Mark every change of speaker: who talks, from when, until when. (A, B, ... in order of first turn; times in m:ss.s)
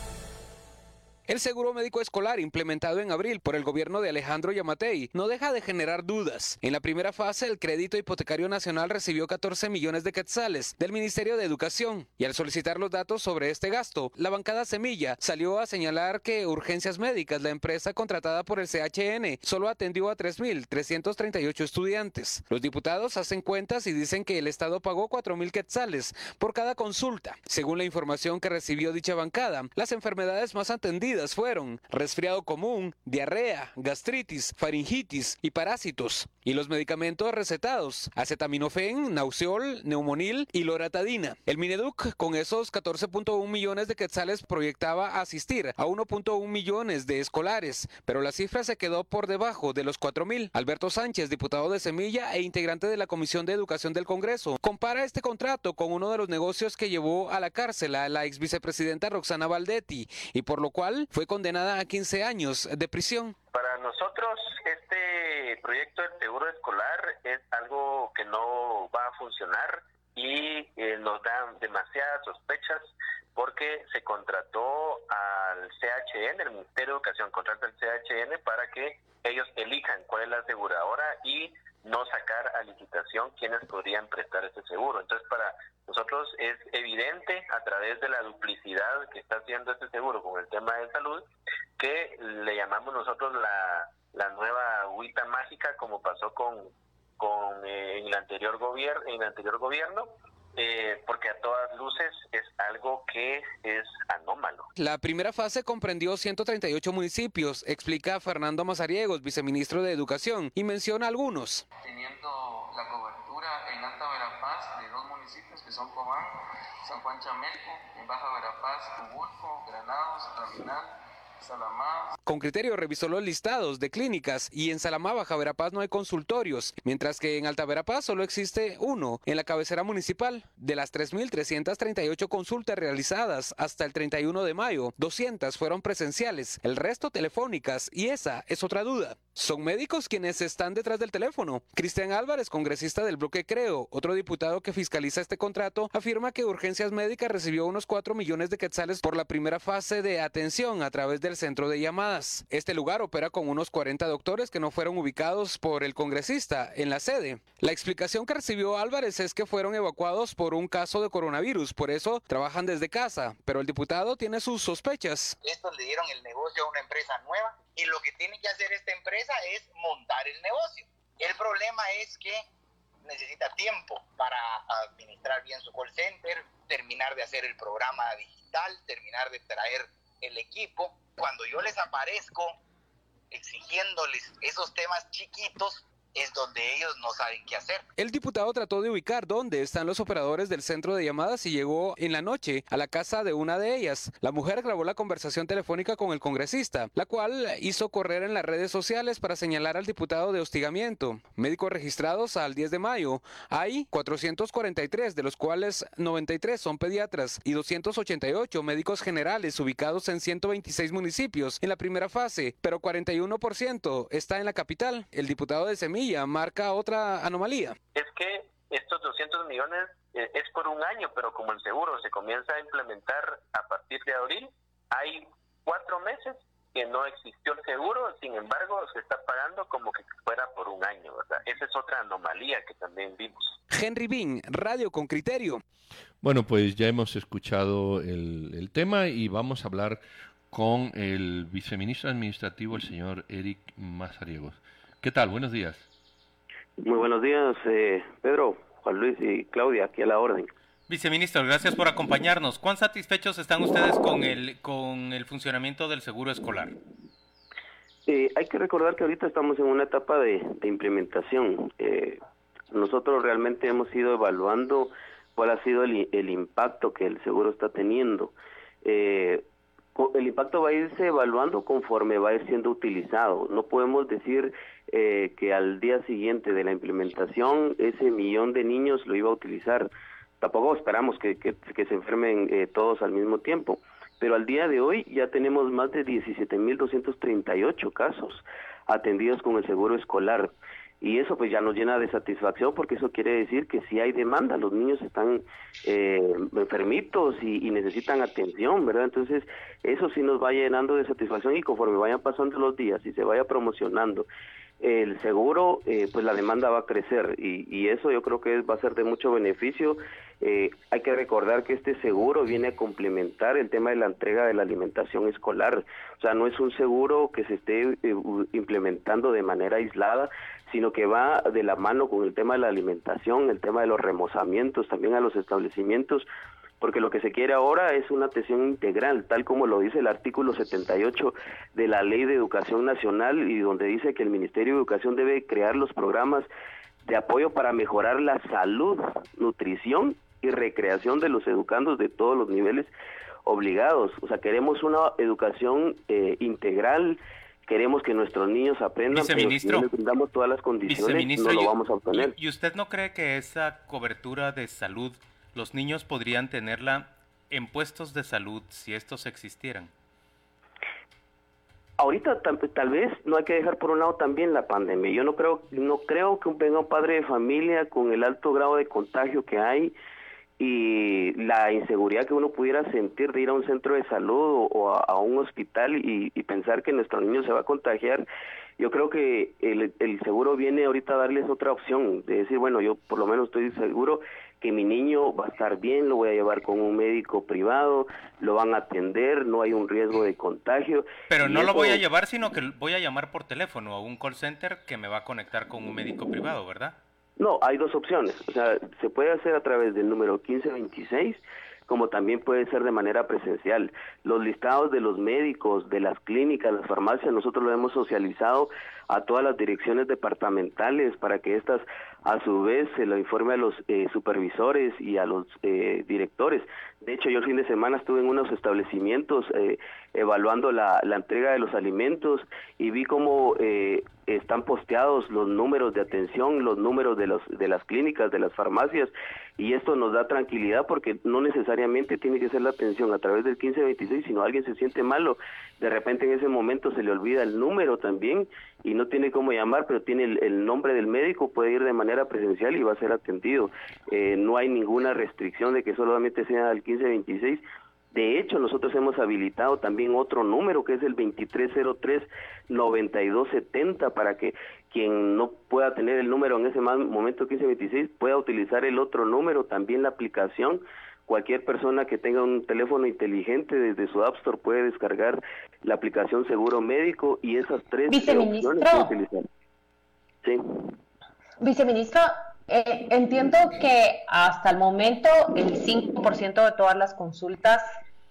0:01.3-1:03.3 A
1:03.5-1:31.2 B
1:31.8-1:44.7 B
1:44.8-1:51.6 A
1:51.8-2:02.1 C
2:02.2-2:45.4 A
2:45.4-2:52.4 D
2:53.0-3:02.6 D
3:03.3-3:07.8 D
3:08.0-3:37.8 A
3:37.9-3:53.5 B
3:53.7-3:55.6 A
3:56.2-4:05.8 E
4:06.8-4:10.5 F
4:10.9-4:16.8 G
4:18.1-4:22.2 F
4:22.7-4:28.3 F
4:28.8-4:39.9 F
4:40.4-5:04.3 F
5:04.8-5:26.2 F
5:26.8-5:36.5 F
5:37.0-5:42.9 F
5:43.4-5:52.3 F
5:49.1-5:49.8 G
5:50.8-5:59.9 G
6:02.0-6:09.9 F
6:10.6-6:18.2 F
6:18.8-6:32.0 F
6:31.3-6:37.0 G
6:37.4-7:27.6 F
7:28.1-7:49.4 F
7:48.1-7:49.1 H
7:50.4-7:50.8 F
7:51.6-7:57.9 H